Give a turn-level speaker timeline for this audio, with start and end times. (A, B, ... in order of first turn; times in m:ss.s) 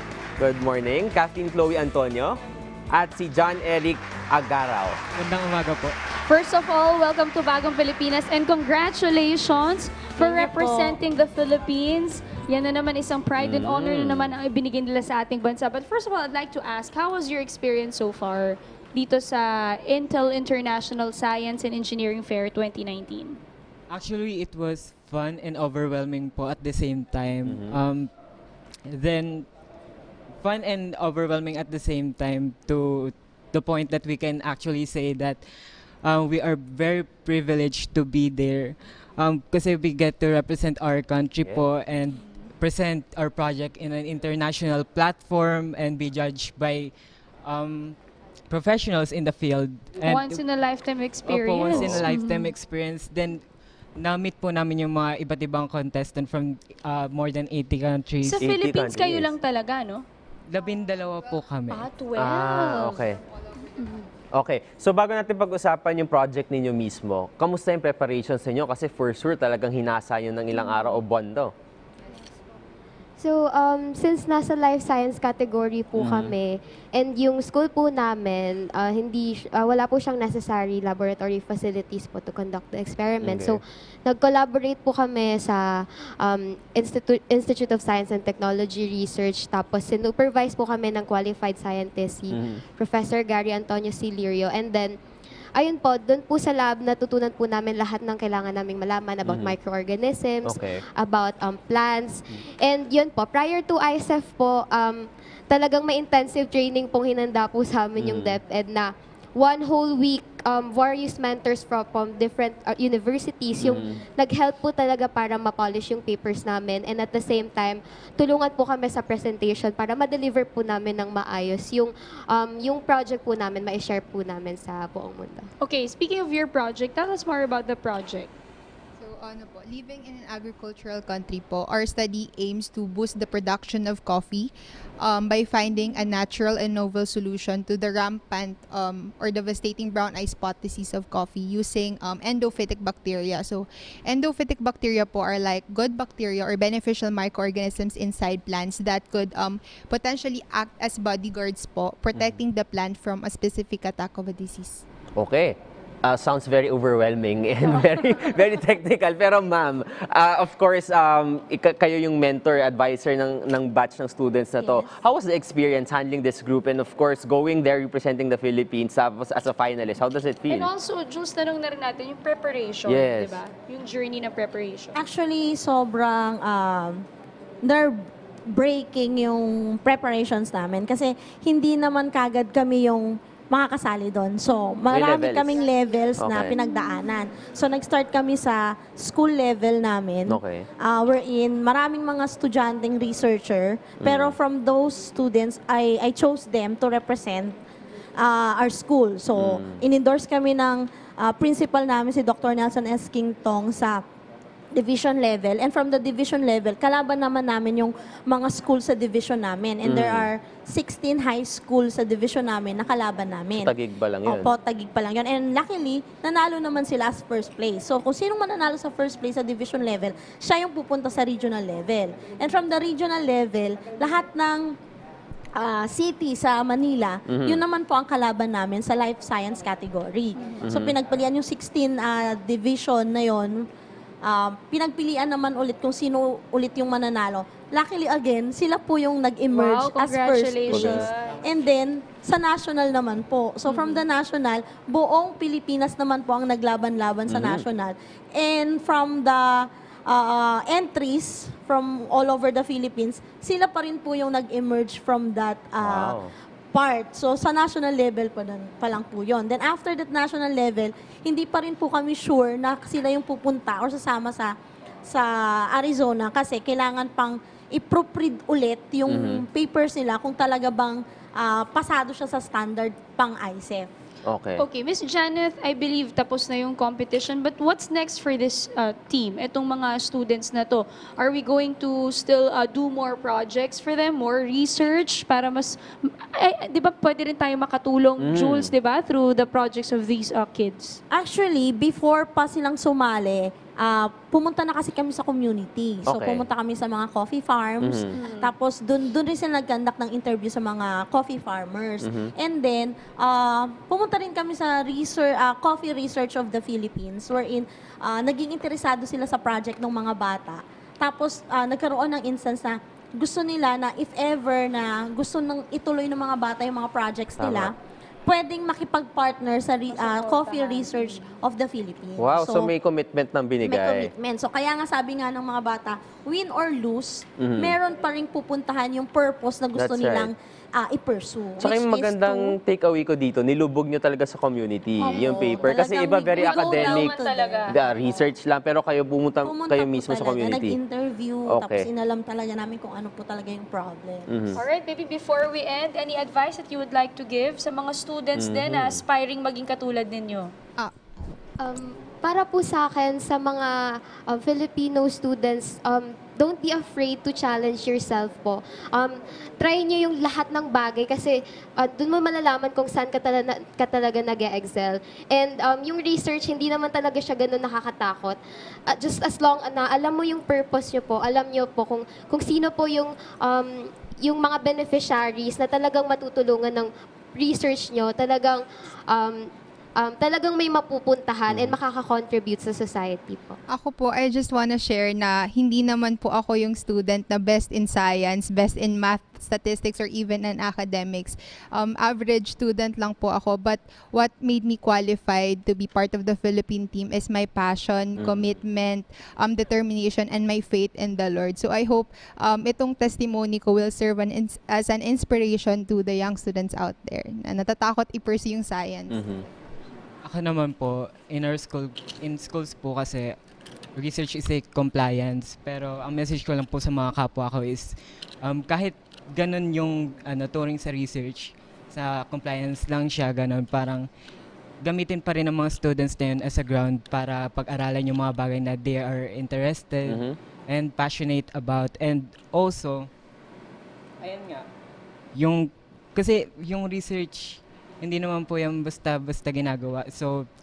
0:00.4-0:02.4 A
0:02.9-0:05.0 A
0:05.2-0:05.9 B
0:06.3-0:23.4 C
0:10.2-0:11.0 D
0:13.4-0:14.4 A
0:23.9-0:28.1 B
0:27.4-0:27.8 A
0:28.9-0:29.5 B
0:30.4-0:35.4 B
0:36.0-0:46.9 B
0:47.4-0:48.0 B
0:48.5-0:50.4 B
0:50.0-0:52.5 C
0:51.2-0:53.4 B
0:51.7-0:52.1 A
0:54.0-0:58.4 B
0:58.2-1:00.0 C
0:58.4-0:59.3 A
1:00.5-1:01.9 B
1:00.6-1:01.4 E
1:01.7-1:03.0 C
1:02.2-1:03.2 A
1:02.8-1:03.7 E
1:04.3-1:11.5 A
1:13.2-1:34.9 F
1:16.0-1:16.4 A
1:23.2-1:23.6 A
1:32.3-1:32.6 A
1:35.6-1:45.0 F
1:39.2-1:39.6 A
1:40.4-1:40.8 A
1:45.5-2:05.5 F
1:48.0-1:48.4 A
1:53.6-1:54.0 A
2:05.6-2:08.3 C
2:09.0-2:34.8 E
2:35.2-2:50.7 A
2:44.6-2:44.9 D
2:50.5-2:55.0 C
2:52.8-2:53.4 A
2:55.0-2:57.0 D
2:57.6-2:57.9 D
2:58.5-3:17.5 D
3:04.9-3:05.6 A
3:06.2-3:06.6 A
3:10.3-3:10.6 A
3:14.0-3:14.4 A
3:18.2-3:24.0 D
3:19.4-3:19.8 A
3:24.8-3:44.7 D
3:29.8-3:30.3 A
3:33.5-3:34.5 A
3:45.6-3:53.7 D
3:47.3-3:47.6 A
3:50.4-3:50.7 C
3:50.6-3:51.0 A
3:54.2-4:24.5 D
3:59.5-4:01.6 C
4:00.7-4:01.0 A
4:03.7-4:04.0 C
4:07.3-4:07.7 A
4:15.8-4:16.3 A
4:25.0-4:33.9 D
4:29.1-4:29.4 A
4:34.2-4:34.6 A
4:34.6-4:51.0 C
4:48.2-4:48.7 A
4:51.1-5:17.7 D
4:56.0-4:56.5 A
4:57.8-4:58.1 A
4:58.1-4:58.5 C
5:02.0-5:02.3 A
5:17.4-5:17.7 A
5:18.2-5:22.7 D
5:19.9-5:21.2 C
5:22.2-5:24.1 A
5:23.6-5:32.6 D
5:27.4-5:27.7 A
5:29.7-5:30.3 A
5:31.6-5:40.8 A
5:35.0-5:37.9 D
5:35.0-5:35.7 C
5:36.3-5:37.8 C
5:39.4-5:44.3 D
5:41.4-5:41.9 A
5:44.3-5:44.6 A
5:44.5-5:50.5 C
5:48.4-5:49.0 A
5:51.6-5:53.7 F
5:54.3-6:08.4 F
6:08.9-6:19.4 F
6:20.0-6:23.6 F
6:21.5-6:21.8 A
6:23.7-6:49.2 E
6:38.2-6:38.6 A
6:49.1-6:49.4 A
6:50.2-6:53.3 B
6:54.0-7:04.1 B
7:04.8-7:13.1 B
7:10.1-7:10.4 A
7:14.2-7:14.6 B
7:15.3-7:20.4 B